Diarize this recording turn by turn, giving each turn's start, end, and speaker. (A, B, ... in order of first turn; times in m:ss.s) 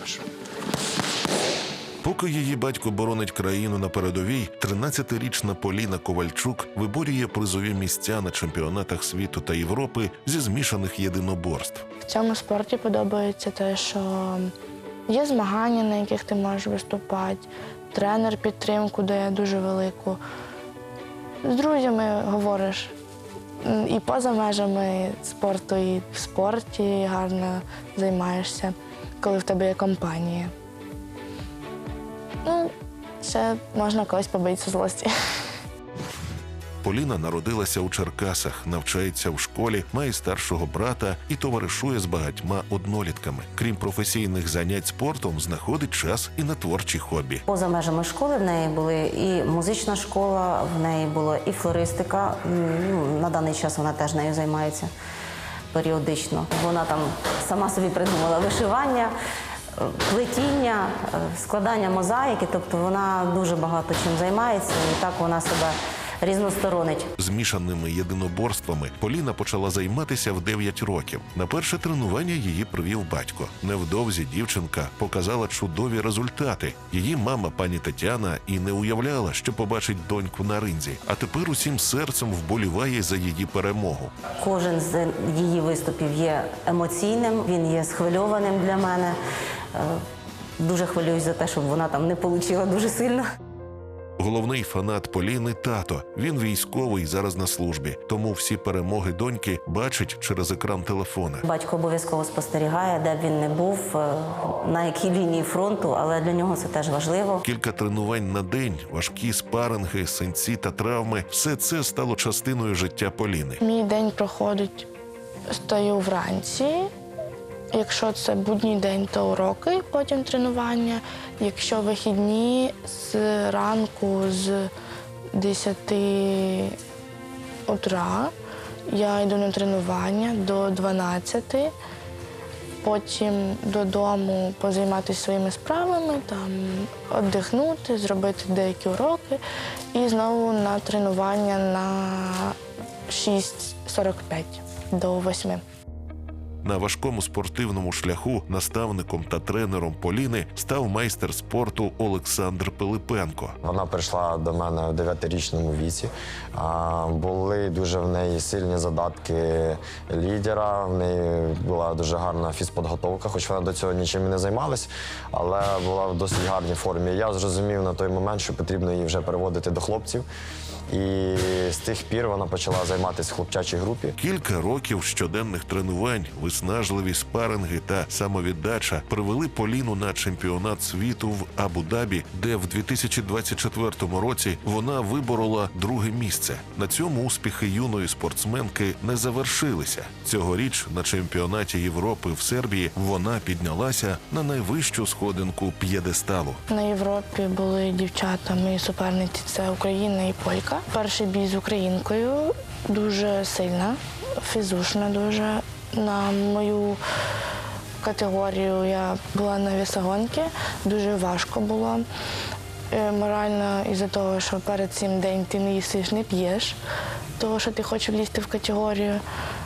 0:02.0-0:11.8 A
0:12.0-0:14.5 B
0:15.1-0:20.2 B
0:21.4-0:22.9 B
0:23.6-0:30.5 B
0:32.4-0:35.1 B
0:36.8-0:47.4 A
0:47.5-0:54.9 C
0:55.7-0:59.1 C
0:59.7-1:07.1 C
1:07.2-1:24.1 A
1:24.4-1:29.2 C
1:29.7-1:30.0 C
1:30.6-1:33.2 C
1:34.2-1:41.4 A
1:41.4-1:47.4 C
1:47.4-1:53.6 A
1:53.6-1:54.9 B
1:55.5-1:56.9 B
1:57.7-2:04.7 B
2:05.3-2:06.8 B
2:07.7-2:08.3 B
2:08.9-2:11.7 B
2:12.8-2:19.4 B
2:19.9-2:22.6 B
2:23.1-2:25.6 B
2:26.6-2:33.6 A
2:33.6-2:50.2 D
2:50.9-2:54.2 D
2:54.2-3:16.6 A
3:16.7-3:27.0 B
3:28.0-3:32.0 B
3:32.9-3:36.8 B
3:37.4-3:39.2 B